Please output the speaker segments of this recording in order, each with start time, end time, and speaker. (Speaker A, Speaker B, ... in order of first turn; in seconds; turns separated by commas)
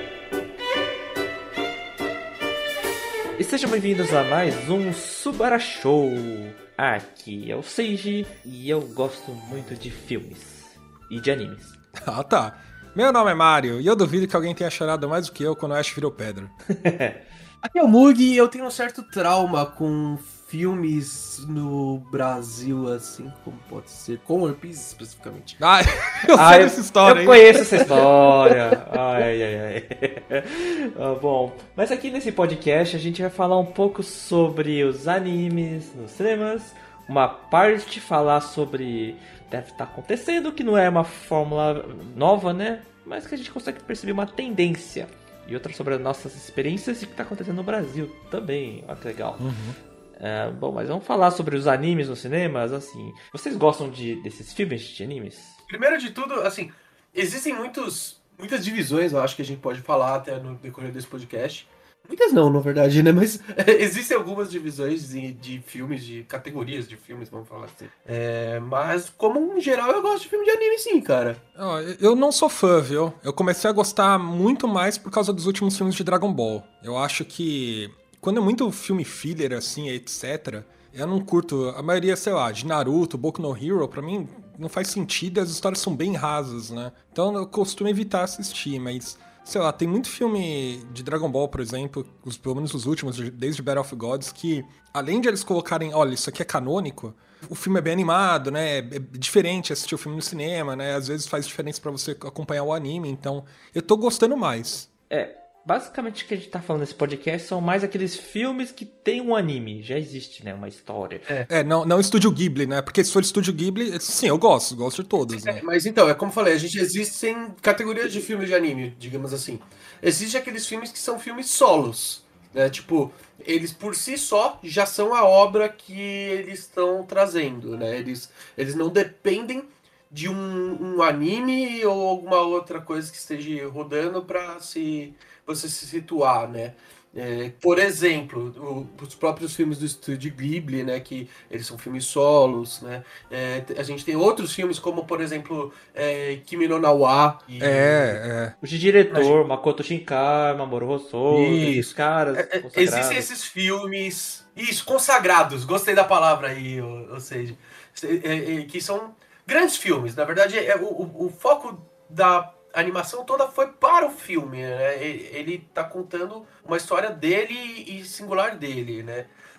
Speaker A: 3.4-11.8, Speaker B: 12.0-16.5, Speaker A: 16.7-17.2, Speaker C: 17.6-25.6, Speaker B: 25.6-27.6, Speaker A: 26.3-49.5, Speaker B: 49.4-49.8, Speaker A: 50.2-55.6, Speaker C: 55.7-71.4, Speaker B: 71.6-104.9, Speaker A: 105.1-111.3, Speaker B: 111.5-115.6, Speaker C: 115.3-148.2, Speaker B: 147.6-148.5, Speaker A: 148.6-153.3, Speaker C: 151.3-169.3